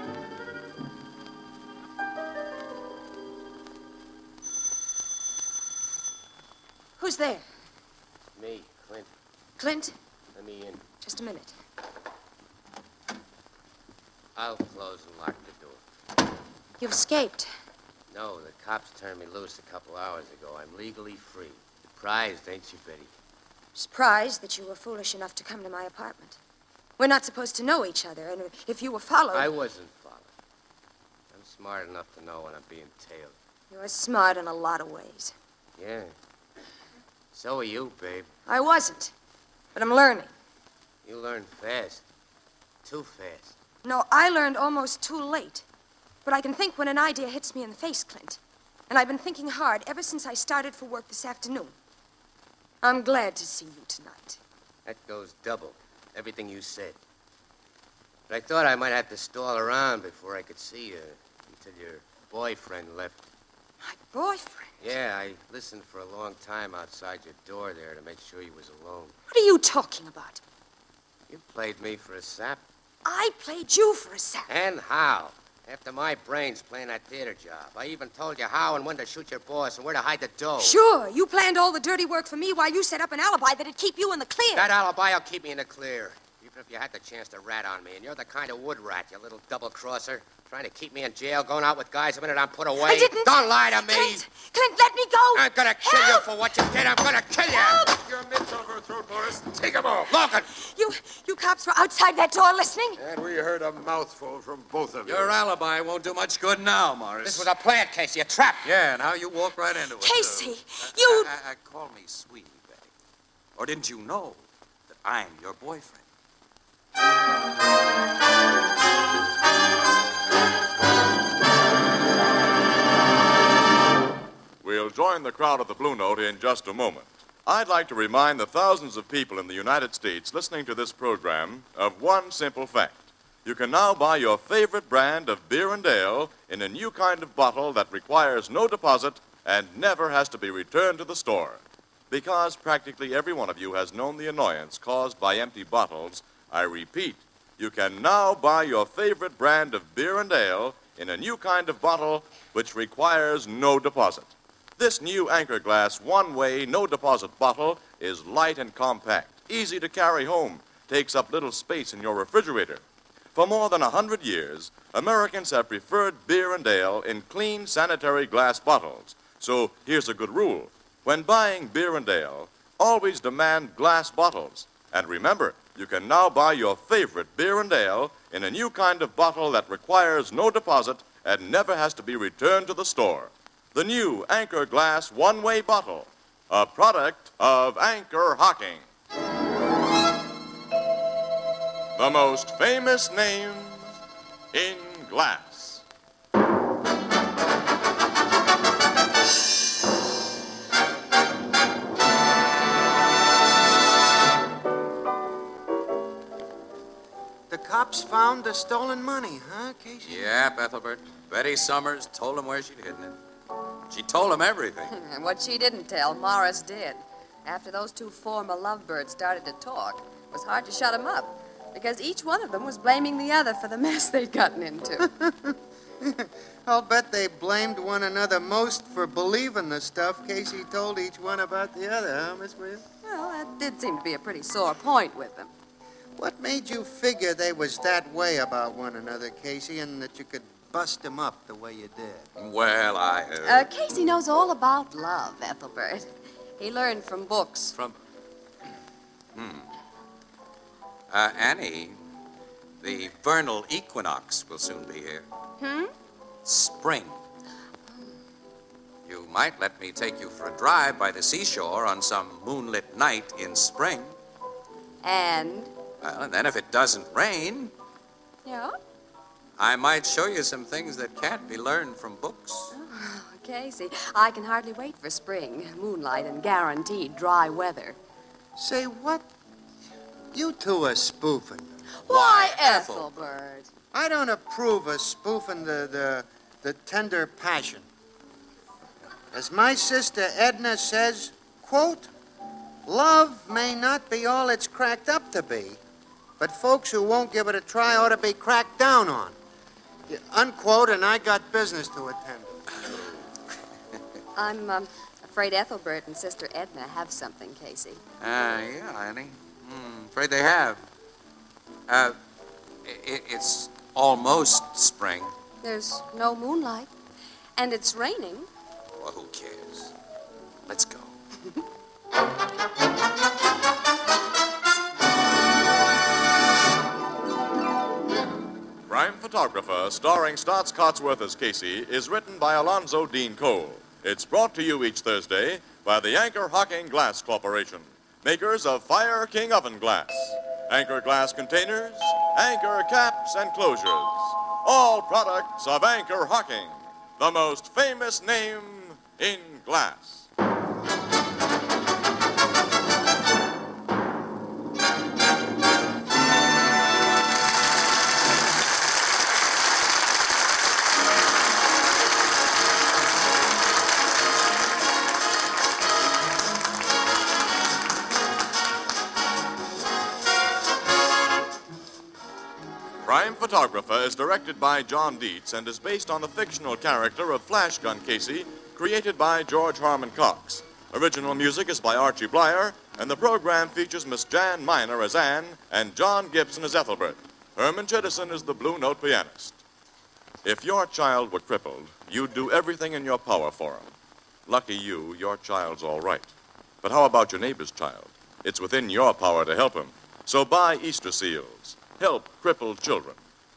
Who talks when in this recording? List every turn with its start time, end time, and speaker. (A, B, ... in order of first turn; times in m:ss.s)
0:07.0-0:07.4 A
0:08.4-0:09.1 B
0:09.6-0:09.9 A
0:10.4-0:10.8 B
0:11.0-0:11.5 A
0:14.4-0:15.8 B
0:16.8-0:17.5 A
0:18.1-0:23.1 B
0:23.8-0:26.4 A
0:27.0-0:29.5 A
0:29.3-0:30.3 B
0:31.3-0:33.3 B
0:33.7-0:35.3 A
0:35.8-0:36.1 B
0:37.3-0:38.3 B
0:38.5-0:39.1 A
0:39.8-0:40.3 A
0:41.0-0:42.0 B
0:42.8-0:43.6 B
0:43.8-0:45.6 A
0:46.2-0:51.7 A
0:52.8-0:54.4 A
0:54.9-0:57.0 B
0:58.3-1:03.3 B
1:03.8-1:04.7 A
1:04.8-1:09.1 B
1:09.3-1:10.4 A
1:11.3-1:12.6 B
1:13.0-1:14.5 A
1:14.5-1:20.8 B
1:20.6-1:24.7 A
1:24.6-1:34.2 B
1:32.8-1:36.2 A
1:35.3-1:37.8 B
1:37.5-1:37.9 A
1:37.8-1:40.2 C
1:40.1-1:40.5 B
1:40.6-1:43.0 A
1:43.0-1:45.3 C
1:45.1-1:47.5 D
1:47.2-1:48.7 B
1:48.6-1:52.9 D
1:50.0-1:51.3 A
1:53.6-1:56.0 D
2:04.6-2:42.8 E
2:43.4-3:08.8 E
3:12.0-3:13.9 E
3:14.5-3:15.8 E
3:27.5-3:30.2 F
3:30.0-3:33.2 D
3:33.9-3:34.9 D
3:34.9-3:45.1 G
3:45.0-3:52.8 F
3:53.0-3:55.5 G
3:56.2-4:02.3 F
4:02.4-4:03.7 D
4:03.4-4:07.7 G
4:09.4-4:09.7 D
4:11.1-4:12.0 D
4:12.8-4:15.3 D
4:15.6-4:15.9 G
4:16.4-4:17.2 D
4:19.0-4:24.2 D
4:25.0-4:25.7 G
4:26.0-4:27.7 D
4:28.4-4:28.8 G
4:29.6-4:32.8 D
4:32.7-4:38.0 G
4:38.6-4:39.3 F
4:40.3-4:41.7 F
4:42.0-4:43.7 G
4:42.0-4:43.1 D
4:43.9-4:47.9 F
4:49.3-4:52.1 F
4:52.9-4:55.8 F
4:56.4-4:59.4 F
5:00.1-5:02.6 F
5:04.4-5:08.0 G
5:08.2-5:10.8 D
5:11.9-5:12.2 D
5:12.8-5:15.3 D
5:15.6-5:16.9 G
5:17.6-5:18.5 G
5:19.0-5:19.9 D
5:20.7-5:21.1 D
5:28.9-5:50.3 E
6:13.0-6:29.6 E
6:30.4-6:33.9 E
6:34.5-6:36.3 E
6:36.8-6:43.2 E